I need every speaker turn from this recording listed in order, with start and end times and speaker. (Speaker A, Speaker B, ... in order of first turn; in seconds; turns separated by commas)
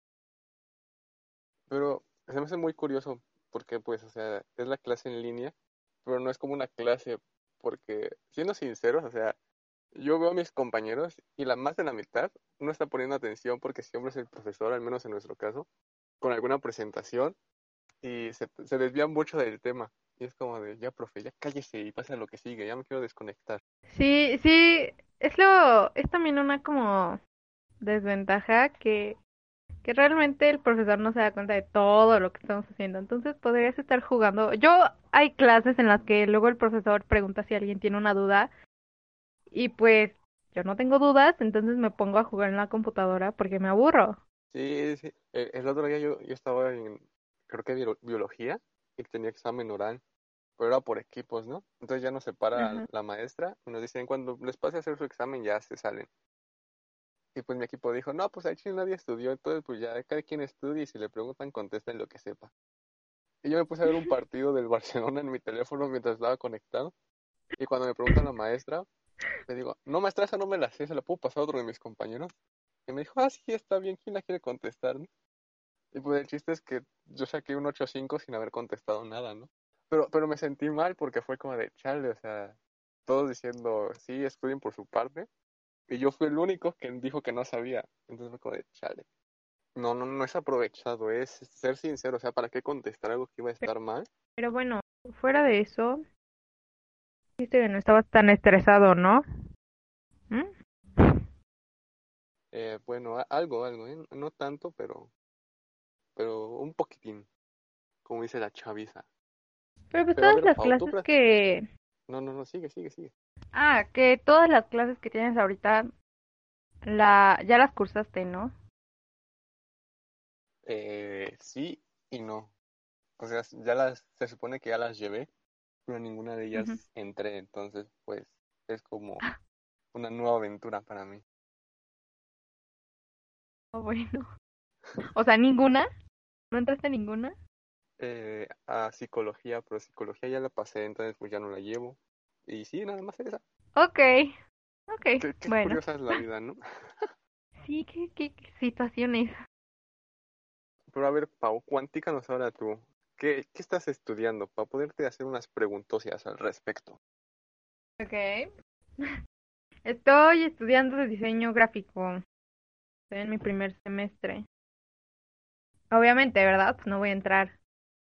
Speaker A: 1.7-9.4, Speaker A: 9.9-15.7, Speaker A: 16.2-17.4, Speaker A: 18.0-23.6, Speaker B: 23.9-27.2, Speaker B: 27.8-29.2, Speaker B: 29.8-38.5, Speaker B: 39.5-44.2, Speaker A: 44.5-50.0, Speaker A: 50.6-56.1, Speaker B: 52.5-52.9, Speaker A: 57.3-62.5, Speaker A: 63.4-66.9, Speaker A: 67.6-68.8, Speaker A: 69.5-72.3, Speaker A: 72.9-75.1, Speaker A: 75.9-85.3, Speaker A: 85.9-89.1, Speaker A: 89.7-94.1, Speaker B: 94.4-96.0, Speaker B: 97.4-99.2, Speaker B: 100.3-101.2, Speaker A: 102.5-105.1, Speaker A: 106.2-107.3, Speaker A: 108.0-109.1, Speaker B: 109.9-111.7, Speaker A: 110.2-111.1, Speaker A: 112.1-113.1, Speaker B: 113.5-115.9, Speaker B: 116.8-118.5, Speaker A: 120.6-122.5, Speaker A: 123.2-125.3, Speaker A: 125.8-129.2, Speaker B: 126.5-126.8, Speaker A: 129.9-131.2, Speaker B: 133.7-134.3, Speaker B: 135.1-135.9, Speaker B: 136.5-137.3, Speaker A: 138.0-143.4, Speaker B: 143.8-144.3, Speaker B: 144.9-145.8, Speaker A: 145.2-147.1, Speaker B: 147.6-149.3, Speaker A: 150.9-157.0, Speaker B: 158.0-158.5, Speaker B: 159.8-162.2, Speaker B: 163.1-164.4, Speaker B: 165.9-167.6